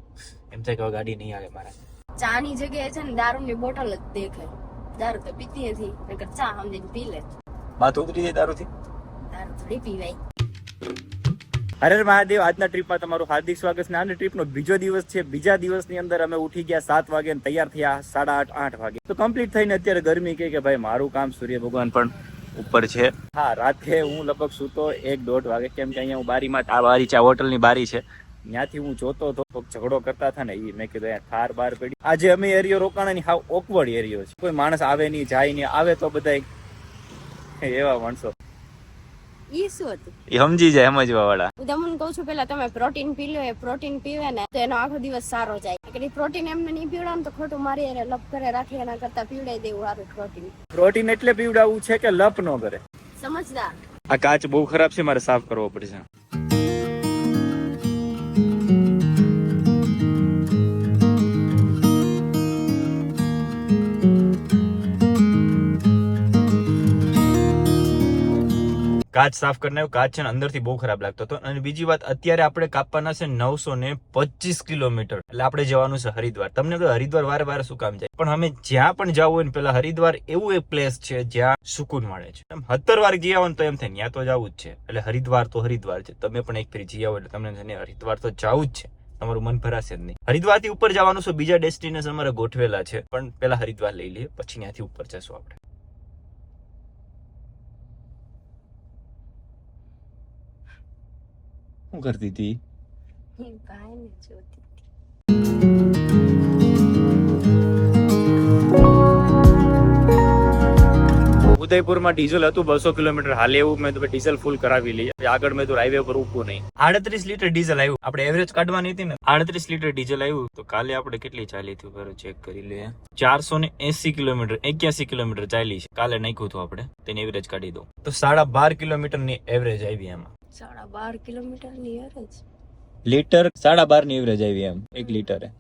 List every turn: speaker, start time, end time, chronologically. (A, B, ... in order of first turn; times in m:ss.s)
0:00.5-0:01.7 A
0:02.2-0:07.3 B
0:07.8-0:08.7 A
0:09.3-0:10.2 B
0:11.8-0:36.4 A
0:37.6-0:38.3 A
0:39.5-0:40.1 B
0:40.3-0:41.5 A
0:41.6-0:50.5 B
0:50.7-0:52.8 A
0:53.2-0:53.7 B
0:54.1-0:56.0 A
1:09.1-1:35.6 A
1:41.9-1:42.6 A
1:43.4-1:44.8 B
1:51.6-2:10.3 A
2:10.5-2:12.4 B
2:13.1-2:15.5 A
2:15.0-2:15.3 B